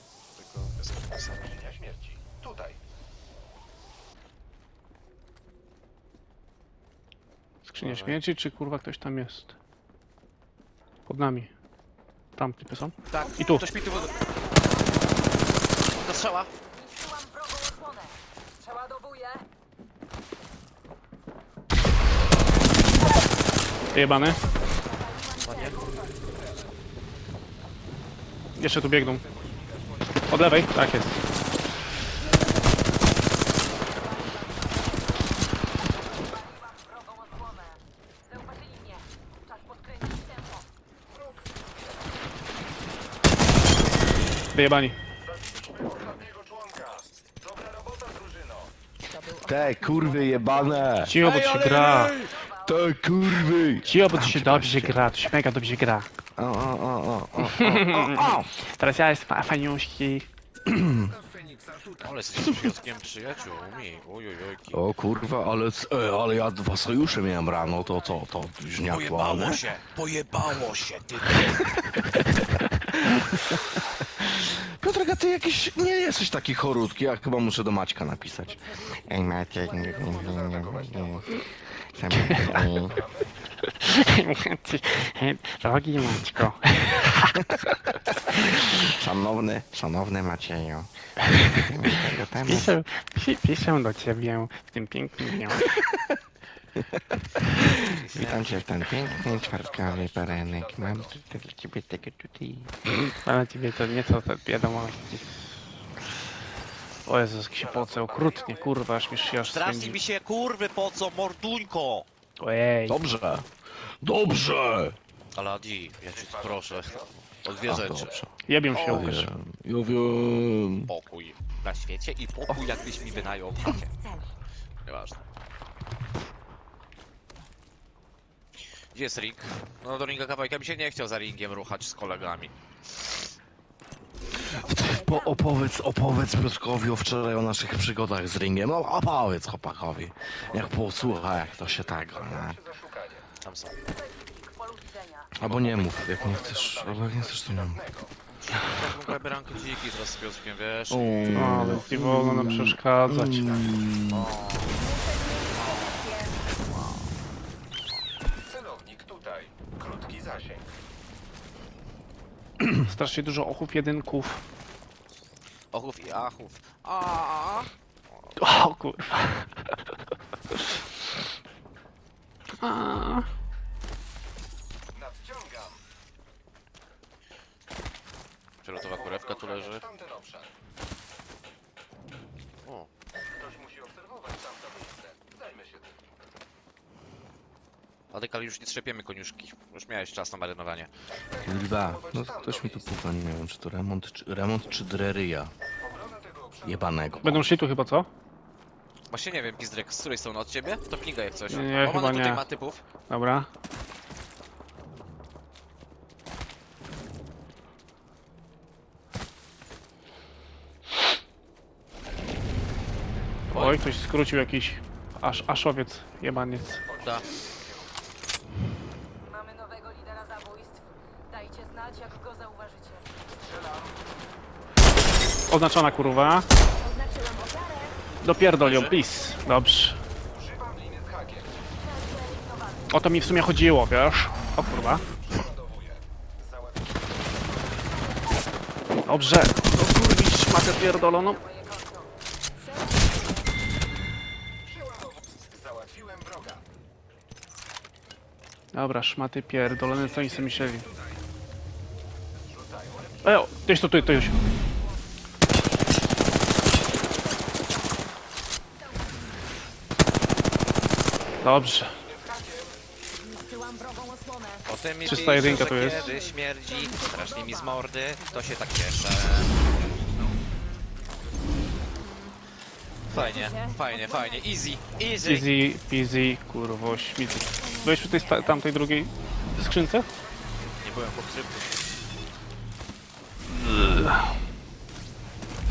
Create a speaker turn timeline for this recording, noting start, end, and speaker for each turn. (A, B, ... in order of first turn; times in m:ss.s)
0:00.3-0:01.5 A
0:01.5-0:02.7 B
0:07.7-0:08.2 A
0:07.7-0:09.5 C
0:11.1-0:11.5 C
0:12.4-0:13.6 C
0:13.1-0:14.2 A
0:13.8-0:15.2 D
0:15.9-0:16.5 A
0:16.9-0:18.0 D
0:18.8-0:19.2 D
0:23.9-0:24.4 C
0:24.0-0:25.7 D
0:25.4-0:25.8 A
0:28.6-0:29.2 C
0:30.3-0:31.2 C
0:34.2-0:34.5 D
0:44.5-0:45.0 C
0:45.4-0:48.5 B
0:49.1-0:51.0 D
0:49.4-0:55.0 E
0:51.0-0:52.2 C
0:53.8-0:56.1 C
0:56.4-0:58.5 E
0:57.4-1:00.3 C
1:00.6-1:01.1 E
1:01.0-1:02.0 B
1:02.0-1:04.8 A
1:02.4-1:02.7 E
1:04.7-1:09.6 E
1:08.8-1:11.7 A
1:11.3-1:23.0 E
1:20.0-1:21.2 B
1:22.9-1:23.2 B
1:23.8-1:27.3 C
1:28.3-1:32.7 E
1:32.4-1:35.7 C
1:36.9-1:42.8 E
1:37.6-1:38.7 A
1:39.4-1:40.9 B
1:43.2-1:45.2 C
1:47.0-1:50.0 C
1:48.0-1:48.6 B
1:49.3-1:52.1 A
1:52.4-1:53.0 C
1:52.9-1:53.5 E
1:54.0-1:55.0 E
1:55.3-1:58.2 A
1:56.2-1:57.0 B
1:57.6-2:00.9 E
1:58.4-1:59.3 C
2:00.8-2:03.9 A
2:02.6-2:04.3 D
2:04.8-2:05.2 A
2:08.9-2:13.2 A
2:14.4-2:15.4 D
2:14.4-2:22.6 E
2:20.7-2:21.4 B
2:22.3-2:23.2 B
2:23.4-2:23.8 A
2:25.4-2:27.8 E
2:25.4-2:26.1 A
2:26.3-2:28.1 B
2:28.3-2:31.5 A
2:30.9-2:34.3 E
2:31.3-2:33.7 C
2:34.1-2:34.9 A
2:34.8-2:36.4 D
2:35.6-2:35.9 A
2:38.5-2:40.6 B
2:42.7-2:44.4 C
2:45.7-2:47.7 A
2:48.4-2:49.5 C
2:52.6-2:53.3 C
2:55.0-2:55.6 B
2:58.6-2:59.8 A
2:59.1-3:00.4 B
3:02.6-3:02.9 A
3:03.5-3:05.6 B
3:08.1-3:10.9 A
3:11.3-3:12.9 B
3:11.4-3:15.5 E
3:15.8-3:16.6 B
3:16.6-3:17.5 E
3:17.2-3:18.1 C
3:19.1-3:22.8 A
3:21.5-3:22.4 C
3:23.1-3:23.5 C
3:33.5-3:36.8 C
3:33.5-3:33.8 A
3:40.1-3:40.6 D
3:42.1-3:43.0 D
3:45.5-3:46.5 C
3:46.8-3:48.0 D
3:48.2-3:50.0 C
3:48.6-3:49.0 A
3:49.1-3:49.6 D
3:50.5-3:51.4 B
3:52.9-3:55.0 C
3:55.3-3:55.9 B
3:59.0-4:01.4 C
4:02.6-4:03.5 D
4:04.9-4:06.6 B
4:08.7-4:10.9 C
4:12.6-4:13.2 B
4:13.2-4:14.4 C
4:17.4-4:17.9 D
4:21.4-4:21.9 C
4:22.2-4:22.7 B
4:24.2-4:24.4 D
4:24.6-4:29.6 A
4:25.0-4:26.1 C
4:33.1-4:35.5 A
4:35.2-4:40.1 C
4:37.6-4:38.6 D
4:40.8-4:41.7 A
4:43.7-4:44.0 C